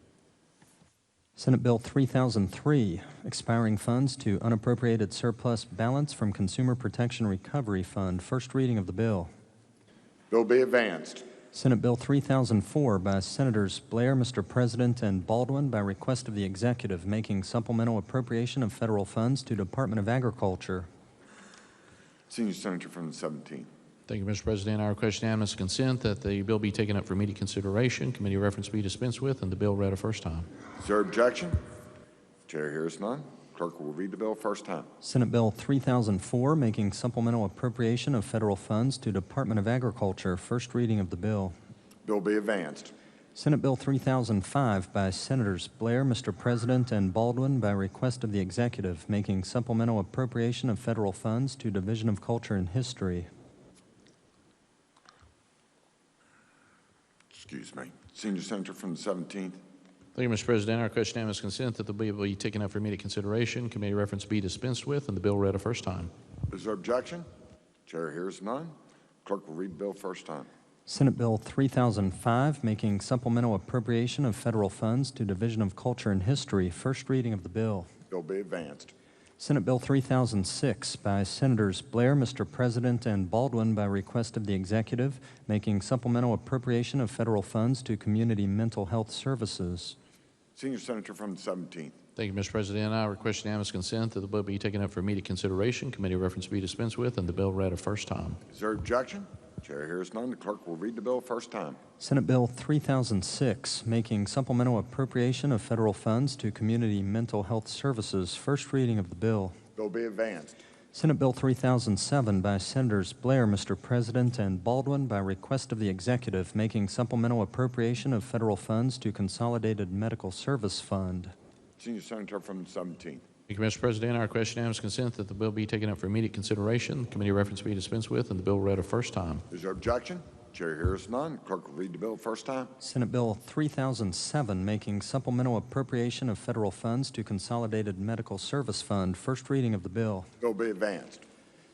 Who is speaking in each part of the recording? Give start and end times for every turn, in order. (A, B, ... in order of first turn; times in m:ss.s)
0:01.4-0:09.3 A
0:10.3-0:11.2 B
0:11.5-0:20.9 A
0:22.3-0:23.7 B
0:24.1-0:30.5 C
0:30.8-0:31.6 B
0:32.5-0:34.9 B
0:35.0-0:41.5 A
0:42.0-0:42.9 B
0:43.4-0:53.3 A
0:57.3-0:59.6 B
1:00.2-1:06.1 C
1:06.5-1:07.3 B
1:07.9-1:10.5 B
1:10.9-1:17.9 A
1:18.1-1:18.9 B
1:19.4-1:30.0 A
1:30.6-1:32.0 B
1:32.2-1:38.4 C
1:38.5-1:41.8 B
1:42.0-1:49.6 A
1:49.8-1:50.6 B
1:50.9-2:01.3 A
2:01.8-2:03.2 B
2:03.5-2:09.4 C
2:09.5-2:12.7 B
2:12.8-2:20.3 A
2:20.4-2:21.2 B